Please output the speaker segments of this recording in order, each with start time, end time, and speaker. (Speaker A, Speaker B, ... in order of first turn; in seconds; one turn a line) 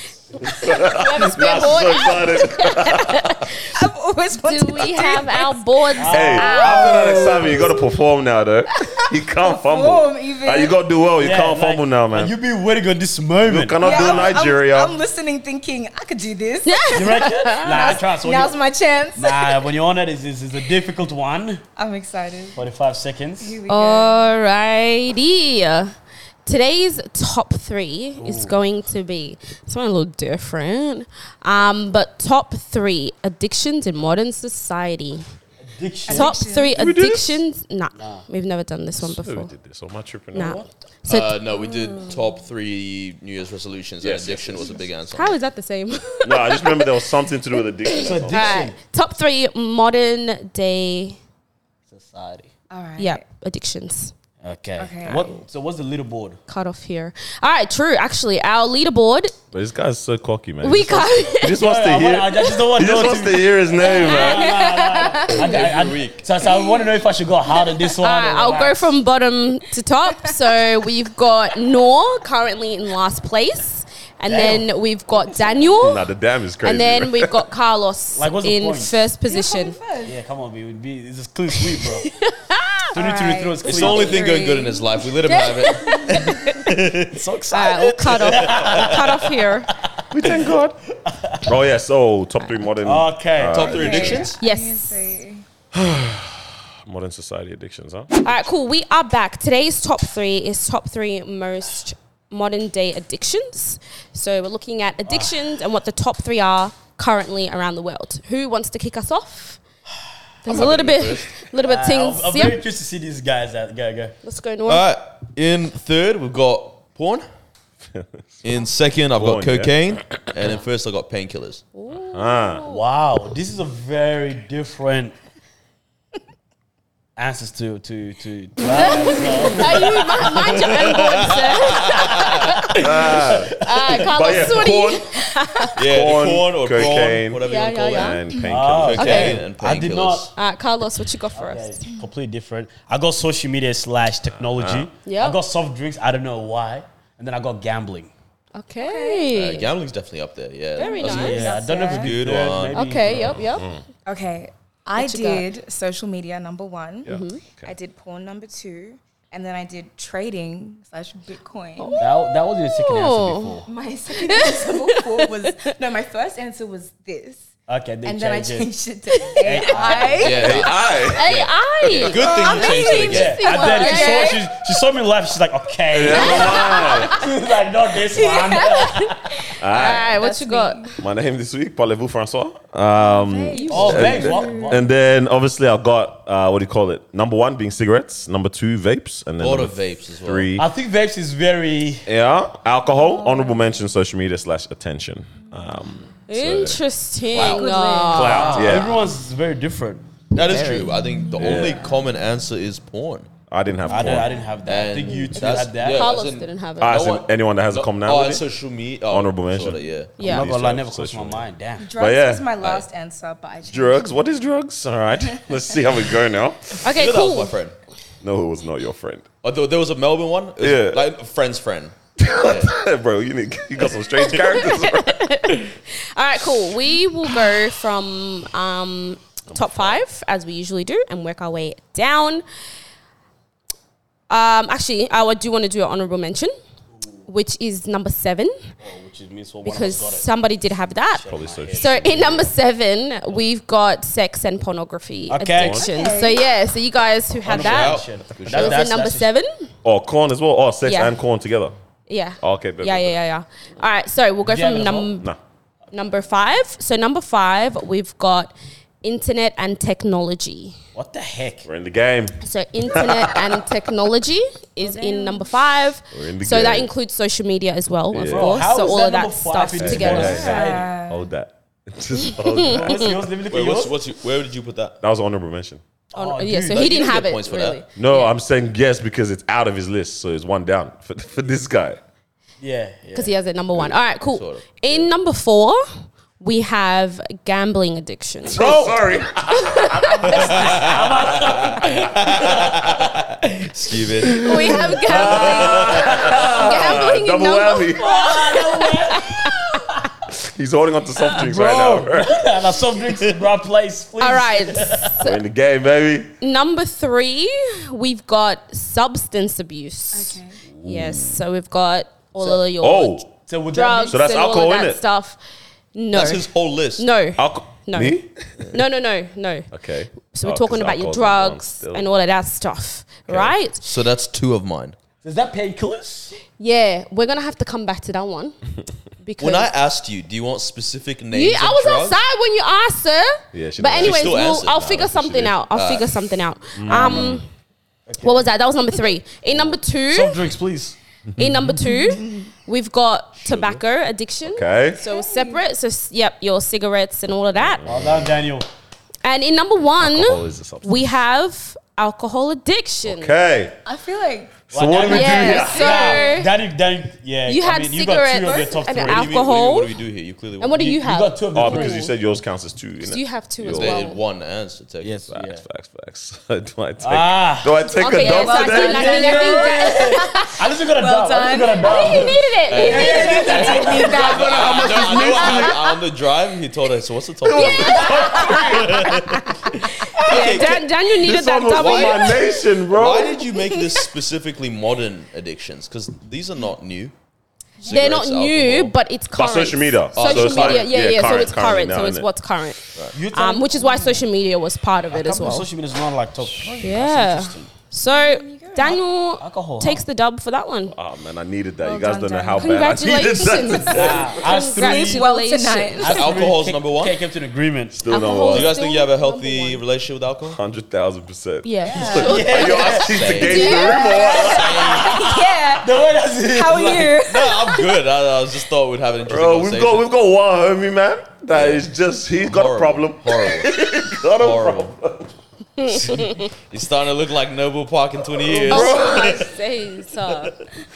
Speaker A: 0.3-3.6
Speaker B: 0.4-3.5
Speaker C: 3.7-7.8
Speaker A: 4.3-7.8
Speaker D: 6.0-6.7
Speaker B: 6.1-12.3
Speaker C: 9.5-10.7
Speaker D: 11.2-14.4
Speaker B: 13.4-14.9
Speaker C: 13.8-19.7
Speaker A: 16.6-18.0
Speaker D: 16.9-18.6
Speaker D: 19.1-21.6
Speaker C: 21.8-22.6
Speaker D: 22.5-23.6
Speaker C: 23.4-24.2
Speaker A: 23.7-25.9
Speaker A: 26.4-35.2
Speaker D: 28.2-28.5
Speaker D: 35.7-36.4
Speaker C: 36.0-36.8
Speaker A: 36.1-39.5
Speaker B: 36.7-37.4
Speaker D: 38.0-38.2
Speaker B: 39.0-40.6
Speaker A: 40.3-41.4
Speaker E: 41.0-45.3
Speaker B: 44.0-44.8
Speaker A: 45.1-51.2
Speaker B: 46.2-48.6
Speaker D: 48.0-48.8
Speaker D: 51.9-52.5
Speaker C: 52.7-53.2
Speaker A: 53.0-54.1
Speaker D: 54.4-56.4
Speaker C: 54.8-55.4
Speaker A: 56.5-59.3
Speaker B: 59.5-64.5
Speaker A: 60.6-61.6
Speaker D: 61.5-68.9
Speaker A: 63.8-65.5
Speaker E: 65.3-66.2
Speaker A: 68.0-76.0
Speaker D: 74.3-74.7
Speaker B: 75.6-77.4
Speaker A: 76.6-79.8
Speaker D: 78.2-79.0
Speaker C: 79.3-80.2
Speaker D: 80.0-82.1
Speaker A: 81.7-82.9
Speaker D: 82.9-84.3
Speaker C: 82.9-85.0
Speaker E: 83.6-87.2
Speaker A: 85.2-86.6
Speaker C: 85.9-86.2
Speaker D: 87.0-91.6
Speaker A: 87.5-89.7
Speaker E: 88.5-88.9
Speaker B: 90.1-90.8
Speaker B: 91.4-94.0
Speaker D: 92.8-94.3
Speaker E: 93.5-94.3
Speaker C: 93.6-95.4
Speaker A: 93.8-95.2
Speaker B: 95.7-98.1
Speaker A: 98.2-109.6
Speaker D: 105.0-105.4
Speaker A: 110.4-112.6
Speaker E: 110.5-111.3
Speaker D: 111.6-114.1
Speaker A: 114.2-114.8
Speaker E: 114.7-117.2
Speaker B: 117.9-118.4
Speaker E: 118.4-121.6
Speaker B: 119.1-120.5
Speaker A: 121.7-122.8
Speaker B: 121.9-122.6
Speaker D: 122.6-125.1
Speaker D: 127.2-130.6
Speaker A: 128.7-132.9
Speaker E: 130.3-132.6
Speaker D: 132.0-134.4
Speaker B: 132.8-135.2
Speaker A: 133.5-135.7
Speaker E: 135.7-138.2
Speaker B: 135.8-139.3
Speaker A: 137.4-138.2
Speaker D: 138.4-140.3
Speaker E: 138.7-140.3
Speaker A: 138.9-139.4
Speaker A: 140.3-141.8
Speaker D: 141.3-148.1
Speaker B: 144.4-144.9
Speaker A: 145.0-145.4
Speaker A: 148.5-149.7
Speaker C: 148.8-149.3
Speaker E: 149.3-152.8
Speaker C: 150.8-152.2
Speaker A: 150.8-151.7
Speaker D: 151.1-153.3
Speaker A: 152.7-153.7
Speaker B: 153.3-153.8
Speaker C: 154.1-162.1
Speaker A: 155.0-155.4
Speaker B: 157.0-157.7
Speaker A: 157.1-157.4
Speaker D: 161.9-163.7
Speaker A: 162.6-163.6
Speaker C: 163.7-167.4
Speaker A: 164.2-165.5
Speaker D: 167.7-168.7
Speaker C: 168.0-170.9
Speaker D: 169.4-170.3
Speaker E: 170.2-173.5
Speaker B: 170.2-171.3
Speaker A: 171.1-174.4
Speaker B: 171.8-172.2
Speaker C: 172.2-174.5
Speaker D: 173.0-179.2
Speaker B: 175.9-177.2
Speaker C: 176.0-177.3
Speaker A: 176.1-176.8
Speaker C: 178.0-180.9
Speaker B: 179.6-180.1
Speaker A: 179.6-181.0
Speaker B: 181.0-190.7
Speaker C: 182.9-184.8
Speaker A: 183.6-184.6
Speaker D: 183.7-184.8
Speaker E: 189.4-190.5
Speaker D: 190.6-192.1
Speaker B: 192.1-196.8
Speaker C: 193.1-193.6
Speaker A: 196.3-198.8
Speaker C: 197.3-198.8
Speaker E: 197.3-197.7
Speaker B: 198.1-199.0
Speaker D: 198.2-200.0
Speaker E: 200.3-203.3
Speaker A: 200.5-201.0
Speaker B: 201.3-201.8
Speaker C: 201.4-201.9
Speaker B: 203.5-204.4
Speaker D: 203.9-206.2
Speaker C: 203.9-204.6
Speaker E: 204.6-210.2
Speaker A: 205.3-207.0
Speaker B: 206.8-208.4
Speaker B: 209.1-212.5
Speaker A: 210.2-210.5
Speaker D: 210.2-211.9
Speaker C: 211.8-214.2
Speaker E: 212.6-212.8
Speaker B: 213.7-216.9
Speaker A: 216.8-217.5
Speaker E: 216.8-217.8
Speaker B: 218.2-219.3
Speaker E: 219.4-222.7
Speaker B: 220.6-221.0
Speaker B: 222.2-225.6
Speaker A: 224.3-232.4
Speaker B: 229.6-229.9
Speaker A: 234.3-236.5
Speaker A: 237.3-238.5
Speaker D: 238.8-240.3
Speaker A: 239.6-249.7
Speaker D: 241.2-242.2
Speaker B: 241.2-242.5
Speaker D: 245.3-245.8
Speaker B: 245.6-245.8
Speaker C: 245.7-246.4
Speaker E: 247.4-248.9
Speaker D: 247.5-249.3
Speaker B: 249.8-251.7
Speaker A: 250.8-251.1
Speaker A: 252.1-255.3
Speaker B: 252.4-253.1
Speaker D: 254.4-255.1
Speaker A: 255.9-260.8
Speaker D: 260.9-261.7
Speaker B: 261.6-263.6
Speaker A: 262.4-270.6
Speaker C: 264.8-265.5
Speaker B: 266.1-266.9
Speaker B: 268.1-268.7
Speaker D: 268.2-270.9
Speaker B: 269.8-273.2
Speaker C: 270.1-271.3
Speaker A: 272.2-273.1
Speaker D: 272.7-273.9
Speaker E: 273.5-275.0
Speaker B: 275.0-275.8
Speaker D: 276.1-277.0
Speaker A: 276.1-278.3
Speaker E: 276.7-277.8
Speaker B: 277.9-282.0
Speaker D: 282.6-283.3
Speaker A: 283.1-285.8
Speaker E: 284.2-285.1
Speaker A: 286.4-288.9
Speaker B: 288.4-292.1
Speaker D: 288.6-288.9
Speaker A: 289.5-290.9
Speaker E: 290.3-296.3
Speaker D: 290.4-292.9
Speaker A: 294.2-299.8
Speaker B: 295.0-298.1
Speaker D: 297.9-300.1
Speaker B: 300.3-302.5
Speaker D: 301.3-305.2
Speaker A: 304.2-305.4
Speaker B: 305.2-306.3
Speaker A: 306.4-315.4
Speaker C: 310.1-310.6
Speaker B: 310.7-311.4
Speaker B: 312.8-313.2
Speaker D: 313.5-314.2
Speaker B: 314.1-315.0
Speaker A: 315.9-319.7
Speaker E: 316.1-317.1
Speaker B: 317.4-318.3
Speaker B: 319.7-322.1
Speaker A: 320.3-323.8
Speaker B: 323.3-323.5
Speaker E: 323.7-324.9
Speaker D: 325.2-326.4
Speaker A: 326.5-328.5
Speaker A: 329.2-329.7
Speaker E: 329.4-332.2
Speaker A: 331.3-337.4
Speaker B: 333.5-335.6
Speaker E: 333.9-334.9
Speaker E: 335.7-336.3
Speaker D: 336.8-337.4
Speaker D: 338.1-338.5
Speaker A: 338.2-340.4
Speaker D: 339.5-340.9
Speaker B: 341.3-341.8
Speaker A: 341.4-347.8
Speaker E: 343.4-343.8
Speaker B: 344.4-345.0
Speaker C: 345.0-345.6
Speaker B: 347.5-348.4
Speaker D: 347.8-348.7
Speaker A: 349.2-353.4
Speaker B: 350.0-351.1
Speaker B: 353.0-353.8
Speaker C: 353.8-356.4
Speaker B: 354.7-355.9
Speaker D: 354.7-359.3
Speaker A: 355.1-356.5
Speaker A: 357.4-359.9
Speaker E: 359.0-360.8
Speaker A: 360.6-362.1
Speaker D: 360.7-362.1
Speaker B: 361.5-364.0
Speaker A: 363.0-364.2
Speaker E: 363.6-365.2
Speaker D: 365.0-365.6
Speaker B: 365.3-369.1
Speaker D: 367.0-367.9
Speaker A: 367.9-370.5
Speaker C: 368.0-375.5
Speaker D: 368.4-374.3
Speaker A: 371.8-373.9
Speaker E: 372.7-379.5
Speaker B: 374.1-375.8
Speaker A: 377.4-379.5
Speaker C: 377.5-379.2
Speaker B: 378.0-378.8
Speaker E: 380.1-380.9
Speaker A: 380.2-382.6
Speaker B: 381.2-383.4
Speaker E: 381.7-387.1
Speaker C: 383.5-383.8
Speaker A: 387.8-395.7
Speaker E: 387.8-388.9
Speaker B: 389.3-392.3
Speaker E: 390.1-390.9
Speaker D: 393.1-394.2
Speaker D: 395.1-397.7
Speaker A: 396.8-400.9
Speaker C: 398.1-399.0
Speaker D: 399.4-400.0
Speaker B: 400.9-404.3
Speaker C: 401.8-404.2
Speaker A: 402.6-406.2
Speaker D: 403.9-405.3
Speaker C: 404.8-406.3
Speaker D: 406.0-408.1
Speaker E: 406.1-407.2
Speaker B: 407.9-408.7
Speaker A: 408.1-409.8
Speaker C: 408.1-408.7
Speaker E: 408.5-410.6
Speaker B: 410.4-415.0
Speaker A: 411.6-414.4
Speaker C: 411.9-417.9
Speaker D: 412.0-413.2
Speaker E: 413.0-413.8
Speaker D: 414.2-417.2
Speaker E: 414.4-415.2
Speaker E: 417.2-420.0
Speaker B: 419.3-425.3
Speaker E: 421.5-421.9
Speaker E: 422.4-423.7
Speaker E: 424.4-424.9
Speaker A: 425.8-426.4
Speaker E: 426.1-429.5
Speaker A: 428.6-430.5
Speaker B: 428.6-429.2